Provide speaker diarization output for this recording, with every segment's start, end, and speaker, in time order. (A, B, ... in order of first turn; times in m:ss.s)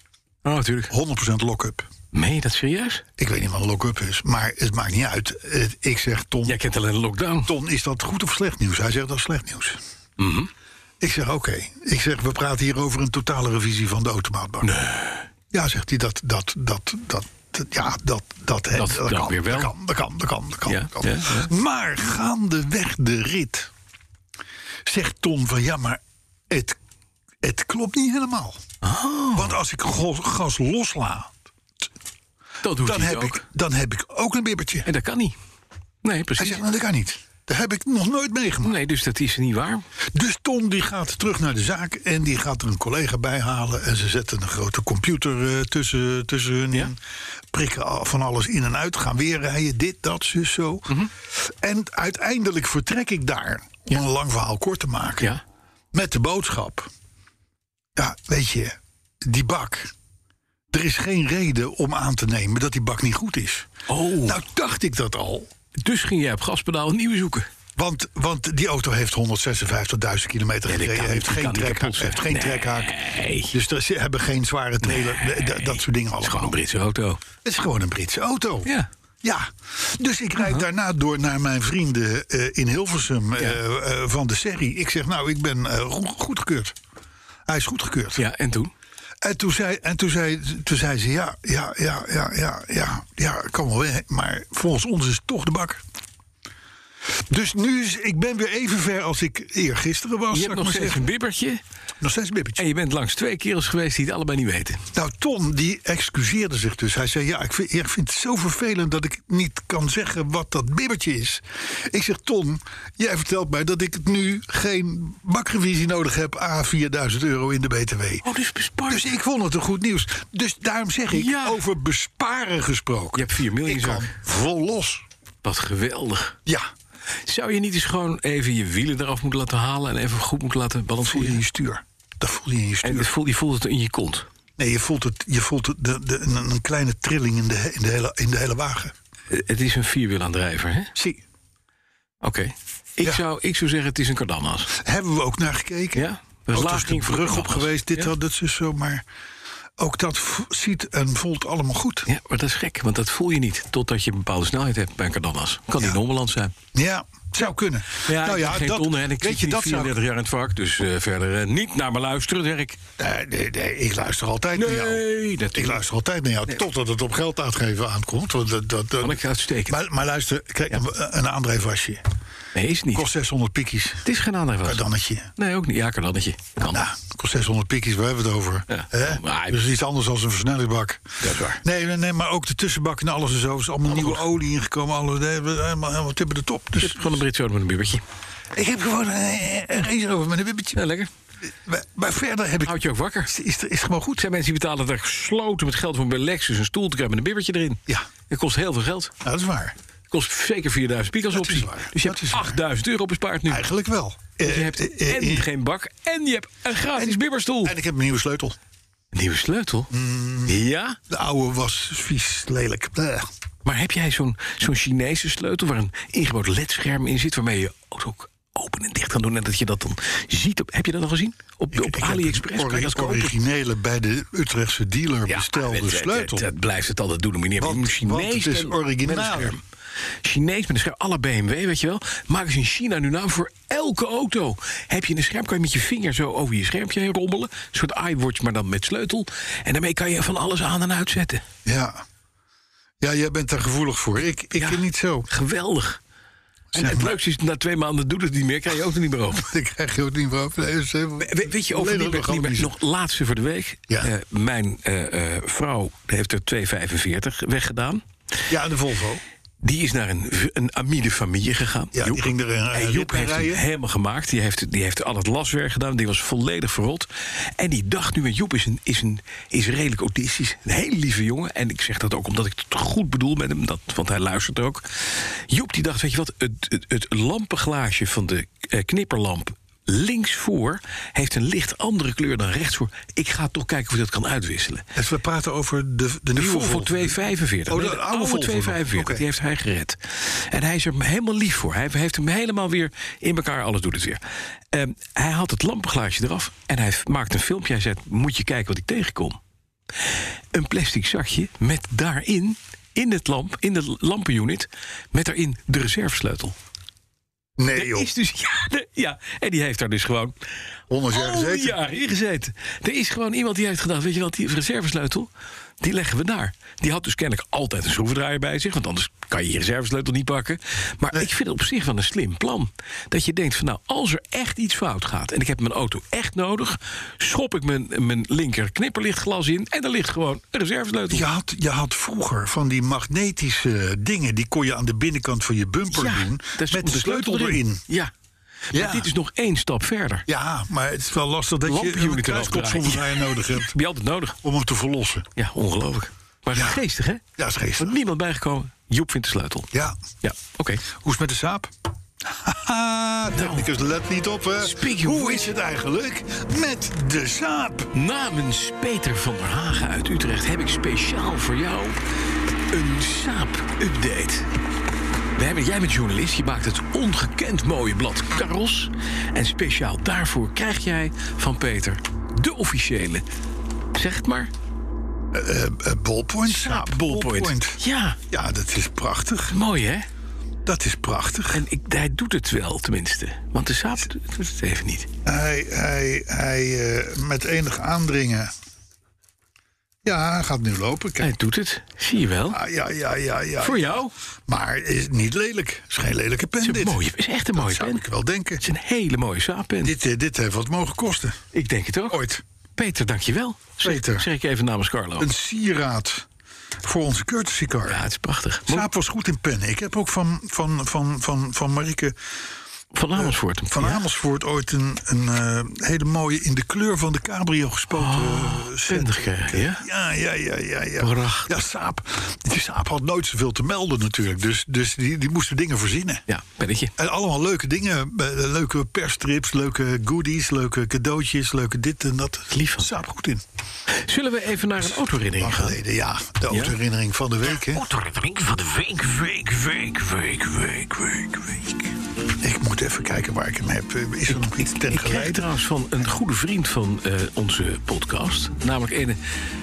0:00.4-0:00.9 A
0:00.9-0:01.9 B
0:02.1-0:03.0 A
0:03.2-0:06.6 B
0:06.4-0:07.5 A
0:07.4-0:09.8 B
0:10.2-0:10.5 A
0:11.0-0:14.7 B
0:14.6-0:15.2 A
0:15.5-0:23.7 B
0:18.8-0:19.7 A
0:20.7-0:21.5 A
0:24.8-0:26.8 B
0:27.4-0:28.6 B
0:28.8-0:29.6 A
0:29.3-0:31.3 B
0:32.6-0:33.4 A
0:32.8-0:34.9 B
0:34.8-0:35.4 A
0:36.0-0:36.6 A
0:36.4-0:38.8 B
0:38.6-0:39.8 A
0:40.1-0:47.0 B
0:47.5-0:55.3 B
0:55.9-0:56.9 B
0:58.0-0:59.9 B
1:00.7-1:03.7 B
1:03.9-1:04.4 A
1:04.2-1:05.5 B
1:05.8-1:07.5 A
1:07.8-1:13.0 B
1:10.7-1:13.5 A
1:13.5-1:16.6 B
1:14.8-1:17.2 A
1:17.4-1:18.7 B
1:19.2-1:26.8 B
1:27.5-1:28.2 B
1:28.2-1:28.7 A
1:29.2-1:35.8 B
1:37.3-1:41.0 B
1:40.3-1:41.6 A
1:42.0-1:42.6 B
1:42.6-1:44.8 A
1:44.9-1:58.2 B
1:58.2-1:59.1 A
1:58.9-2:05.0 B
2:01.1-2:01.6 A
2:03.2-2:04.1 A
2:05.4-2:06.4 A
2:07.2-2:11.4 A
2:11.0-2:13.1 B
2:12.8-2:14.3 A
2:14.6-2:18.9 B
2:19.3-2:20.9 A
2:21.0-2:21.2 B
2:22.2-2:24.7 A
2:24.7-2:29.0 B
2:25.9-2:28.1 A
2:29.8-2:32.1 B
2:32.0-2:36.5 A
2:36.7-2:40.0 B
2:38.0-2:42.8 A
2:43.0-2:52.0 B
2:44.5-2:45.8 A
2:49.0-2:49.8 A
2:52.5-2:53.1 A
2:52.9-2:54.0 B
2:54.0-2:54.8 A
2:54.6-2:55.3 B
2:55.4-2:56.8 A
2:56.7-3:01.0 B
2:58.7-2:59.7 A
3:01.2-3:01.6 A
3:01.6-3:07.2 B
3:03.9-3:04.2 A
3:06.8-3:08.0 A
3:08.5-3:10.8 B
3:10.8-3:11.1 A
3:11.4-3:14.3 B
3:12.6-3:13.3 A
3:14.2-3:19.1 A
3:19.2-3:19.7 B
3:20.1-3:23.6 A
3:21.3-3:22.6 B
3:23.5-3:25.5 B
3:24.4-3:27.8 A
3:27.0-3:28.6 B
3:29.1-3:29.9 A
3:29.9-3:30.6 B
3:30.4-3:31.0 A
3:31.1-3:33.3 B
3:33.6-3:43.4 A
3:41.7-3:46.5 B
3:45.3-3:49.6 A
3:47.6-3:49.6 B
3:50.2-4:01.4 A
4:01.6-4:02.0 B
4:03.0-4:05.3 B
4:04.6-4:06.0 A
4:06.7-4:07.2 B
4:06.7-4:09.5 A
4:09.3-4:12.7 B
4:11.2-4:18.0 A
4:18.5-4:19.2 B
4:19.6-4:44.8 A
4:21.9-4:23.6 B
4:44.9-4:49.2 B
4:46.4-4:54.2 A
4:54.7-4:59.4 A
5:00.5-5:06.5 A
5:07.6-5:08.1 B
5:07.7-5:10.3 A
5:10.9-5:11.8 B
5:11.1-5:15.3 A
5:15.8-5:31.2 A
5:31.1-5:37.8 B
5:35.9-5:38.1 A
5:38.7-5:40.3 A
5:38.7-5:39.1 B
5:40.3-5:43.7 B
5:41.6-5:44.4 A
5:44.4-5:45.3 B
5:45.4-5:47.2 A
5:46.5-5:46.8 B
5:47.4-5:48.0 B
5:47.8-5:49.7 A
5:49.7-5:50.0 B
5:50.2-5:50.8 A
5:50.9-5:51.7 B
5:52.3-5:57.9 B
5:53.3-5:53.7 A
5:54.6-5:55.5 A
5:57.9-6:02.0 A
6:02.7-6:04.5 A
6:05.4-6:13.2 A
6:13.9-6:14.5 A
6:15.3-6:17.8 B
6:16.4-6:18.2 A
6:18.3-6:19.6 B
6:19.5-6:20.1 A
6:20.6-6:21.6 B
6:21.5-6:25.1 A
6:25.2-6:28.5 B
6:30.0-6:31.4 B
6:31.2-6:32.6 A
6:32.5-6:33.9 B
6:33.6-6:34.1 A
6:34.5-6:37.0 B
6:36.6-6:38.0 A
6:37.5-6:38.6 B
6:38.6-6:39.9 A
6:39.8-6:41.4 B
6:41.5-6:42.2 A
6:42.1-6:42.4 B
6:42.8-6:45.3 A
6:43.8-6:44.3 B
6:45.2-6:46.2 B
6:46.8-6:48.0 B
6:47.9-6:48.9 A
6:48.7-6:52.2 B
6:52.9-6:54.0 A
6:53.2-7:06.2 B
6:57.9-6:59.8 A
7:01.0-7:01.6 A
7:06.3-7:06.9 A
7:07.0-7:13.4 B
7:12.5-7:12.9 A
7:13.9-7:15.8 A
7:14.9-7:17.9 B
7:16.5-7:16.7 A
7:17.5-7:21.9 A
7:22.4-7:25.5 B
7:24.3-7:29.2 A